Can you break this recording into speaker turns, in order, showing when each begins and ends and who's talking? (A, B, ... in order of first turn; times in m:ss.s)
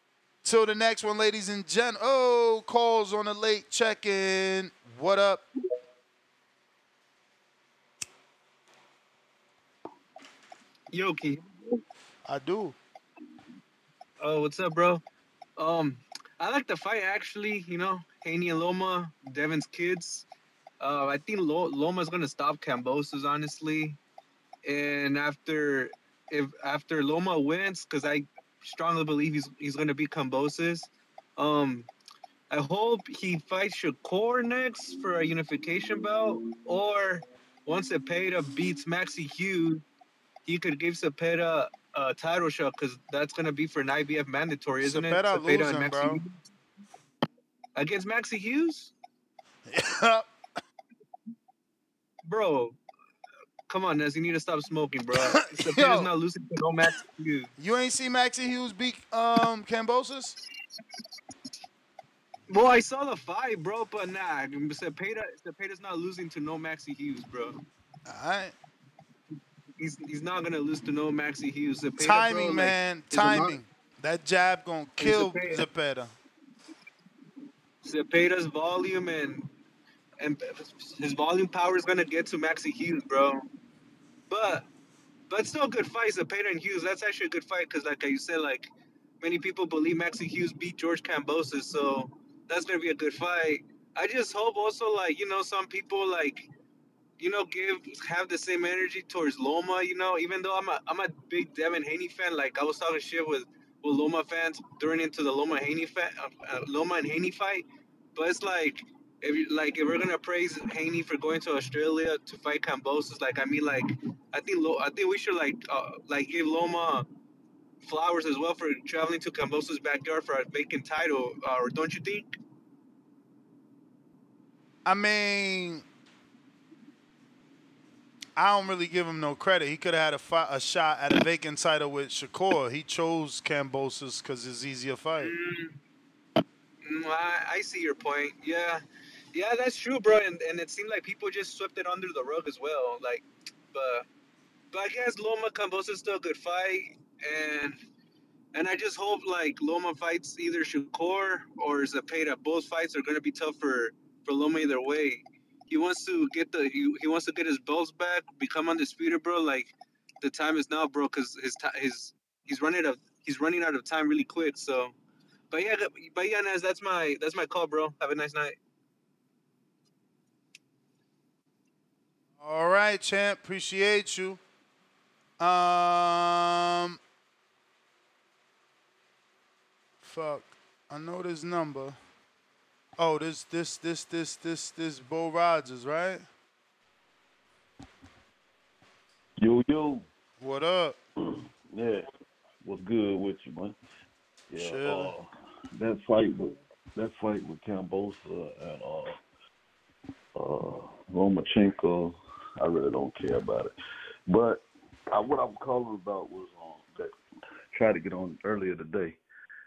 0:00.4-0:05.4 A
0:10.9-0:11.8 B
0:12.2-0:12.8 A
0:14.2-0:15.0 B
0:15.6-0:20.2 B
0:20.8-0:24.0 B
0:24.6-0:31.9 B
0:32.5-0:39.8 B
0:40.5-0:46.3 B
0:44.8-0:46.2 A
0:47.8-0:48.9 B
0:49.7-0:50.2 A
0:52.2-0:52.8 B
0:53.7-0:57.5 B
0:55.1-0:56.1 A
0:57.6-1:00.4 A
1:02.5-1:07.6 B
1:08.0-1:08.5 A
1:09.8-1:13.6 B
1:12.0-1:16.1 A
1:15.0-1:15.6 B
1:17.8-1:19.5 B
1:20.2-1:23.4 B
1:24.3-1:24.6 B
1:25.3-1:28.7 B
1:29.2-1:36.5 B
1:37.2-1:57.1 B
1:57.8-2:02.3 B
2:04.8-2:05.8 A
2:08.4-2:15.3 A
2:15.2-2:15.8 B
2:16.8-2:18.8 B
2:19.3-2:24.0 B
2:24.7-2:27.8 B
2:28.5-2:44.9 B
2:45.5-2:48.6 B
2:52.4-2:54.4 A
2:55.4-2:57.0 A
3:00.0-3:02.0 A
3:03.0-3:06.2 A
3:09.4-3:10.1 C
3:10.4-3:11.0 A
3:11.7-3:12.0 C
3:12.6-3:13.8 C
3:14.5-3:19.2 C
3:14.6-3:15.1 A
3:20.4-3:23.7 C
3:24.3-3:27.1 C
3:27.7-3:29.2 C